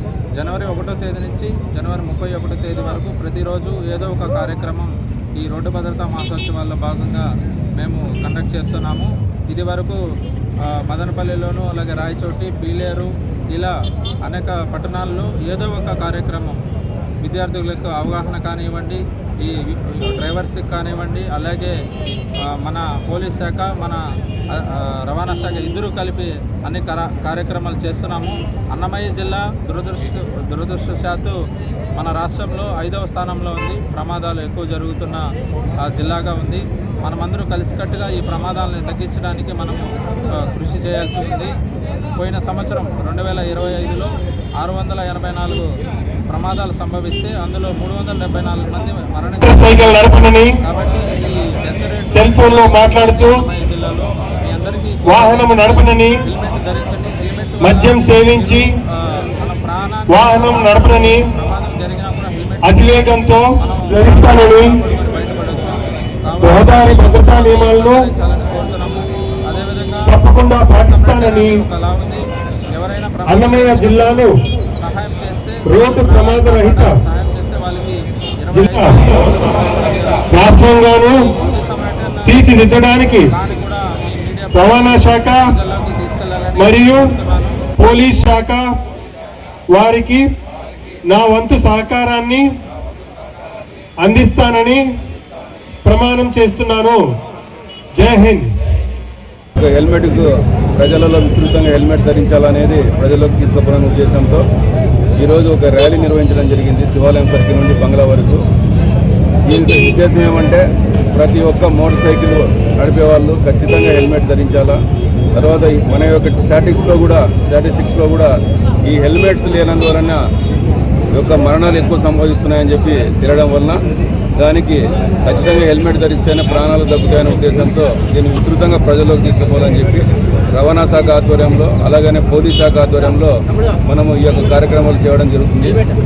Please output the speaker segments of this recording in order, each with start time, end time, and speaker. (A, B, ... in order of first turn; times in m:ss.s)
0:00.3-0:10.0 A
0:10.6-0:16.6 A
0:17.2-0:21.8 A
0:22.4-0:31.4 A
0:32.0-0:35.2 A
0:35.8-0:41.5 A
0:42.1-0:45.7 A
0:46.3-1:10.2 A
0:49.4-0:50.5 B
0:52.1-0:53.4 B
0:55.0-0:56.2 B
0:57.6-0:58.7 B
1:00.1-1:01.3 B
1:02.6-1:04.8 B
1:06.4-1:08.1 B
1:10.0-1:11.6 B
1:10.7-1:14.2 A
1:13.2-1:14.3 B
1:14.8-1:20.3 A
1:15.7-1:17.0 B
1:18.5-1:19.1 B
1:20.3-1:21.2 B
1:21.0-1:22.5 A
1:22.2-1:23.3 B
1:23.0-1:27.6 A
1:24.5-1:25.4 B
1:26.6-1:27.1 B
1:27.8-1:28.6 B
1:29.7-1:30.2 B
1:31.1-1:32.4 B
1:34.0-1:34.8 B
1:35.8-1:37.0 B
1:38.0-1:38.5 B
1:39.5-1:44.4 C
1:45.2-1:48.4 C
1:49.4-1:54.8 C
1:55.3-1:58.3 C
1:58.8-2:00.2 C
2:01.1-2:03.8 C
2:04.4-2:15.8 C